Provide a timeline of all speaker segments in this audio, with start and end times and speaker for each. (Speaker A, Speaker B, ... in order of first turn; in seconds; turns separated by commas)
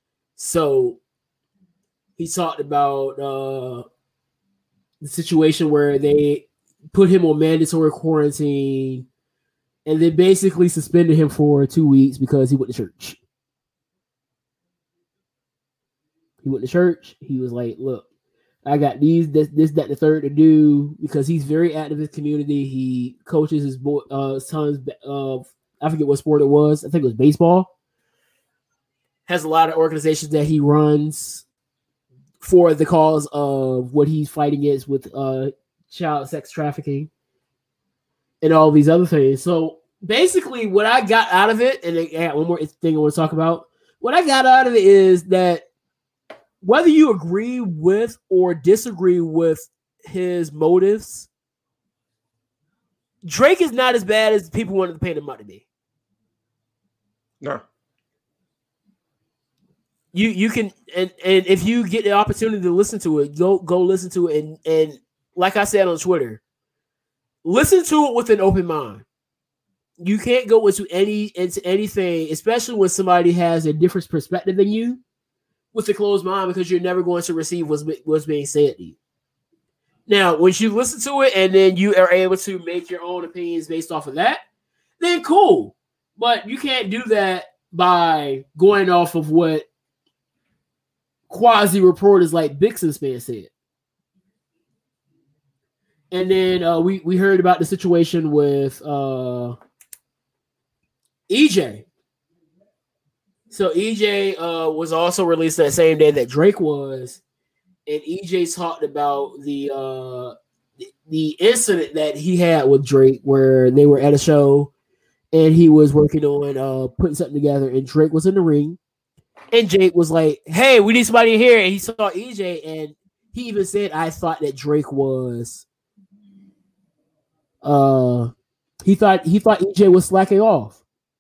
Speaker A: 0.4-1.0, Speaker A: 2.2-3.9, Speaker A: 5.0-9.1, Speaker A: 9.9-13.2, Speaker A: 16.4-18.1, Speaker A: 18.6-27.7, Speaker A: 29.3-31.4, Speaker A: 32.4-37.1, Speaker A: 38.4-45.6, Speaker A: 46.6-51.3, Speaker A: 53.2-55.6, Speaker A: 60.1-66.4, Speaker A: 67.4-69.0, Speaker A: 70.0-75.0, Speaker A: 75.7-79.0, Speaker A: 80.1-84.4, Speaker A: 85.0-89.7, Speaker A: 91.3-93.5, Speaker A: 96.1-99.6, Speaker A: 101.3-101.9, Speaker A: 103.5-107.2, Speaker A: 107.9-110.3, Speaker A: 111.1-114.7, Speaker A: 115.3-118.8, Speaker A: 119.5-125.7, Speaker A: 127.6-128.3, Speaker A: 128.8-130.8